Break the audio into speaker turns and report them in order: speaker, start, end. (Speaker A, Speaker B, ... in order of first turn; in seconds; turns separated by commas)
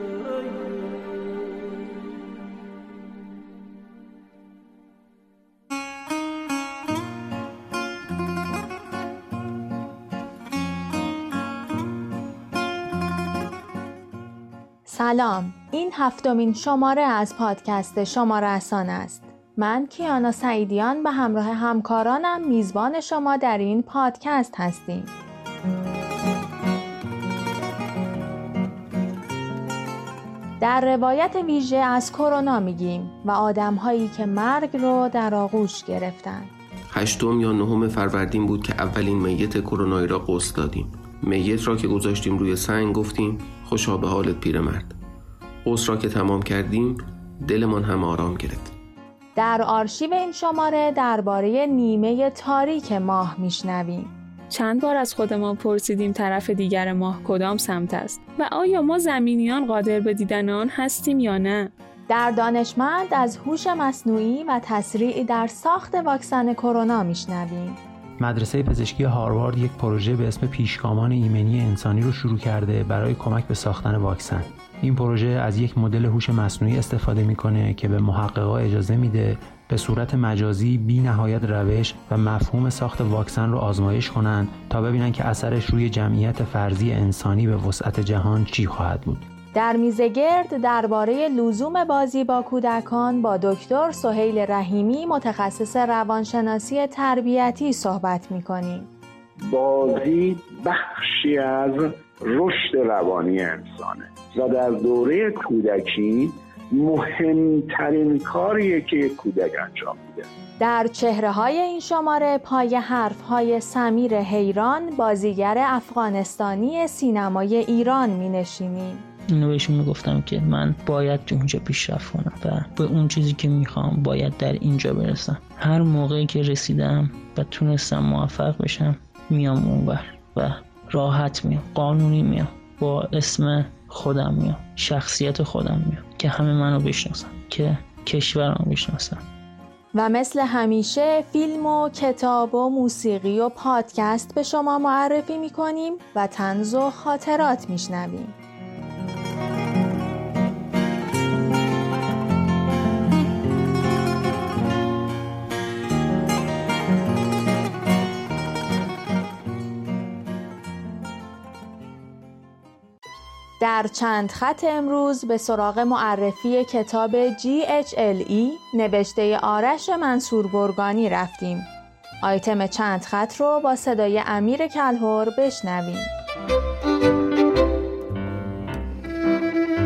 Speaker A: 14.8-25.1, Speaker A: 30.6-36.5, Speaker B: 36.9-44.9, Speaker B: 45.6-48.7, Speaker A: 49.4-54.1, Speaker C: 54.5-61.7, Speaker A: 62.1-67.8, Speaker D: 68.2-89.2, Speaker A: 89.5-98.9, Speaker E: 99.5-110.2, Speaker A: 110.6-119.0, Speaker F: 119.3-139.2, Speaker A: 139.9-148.3, Speaker A: 163.6-171.7, Speaker A: 172.2-176.1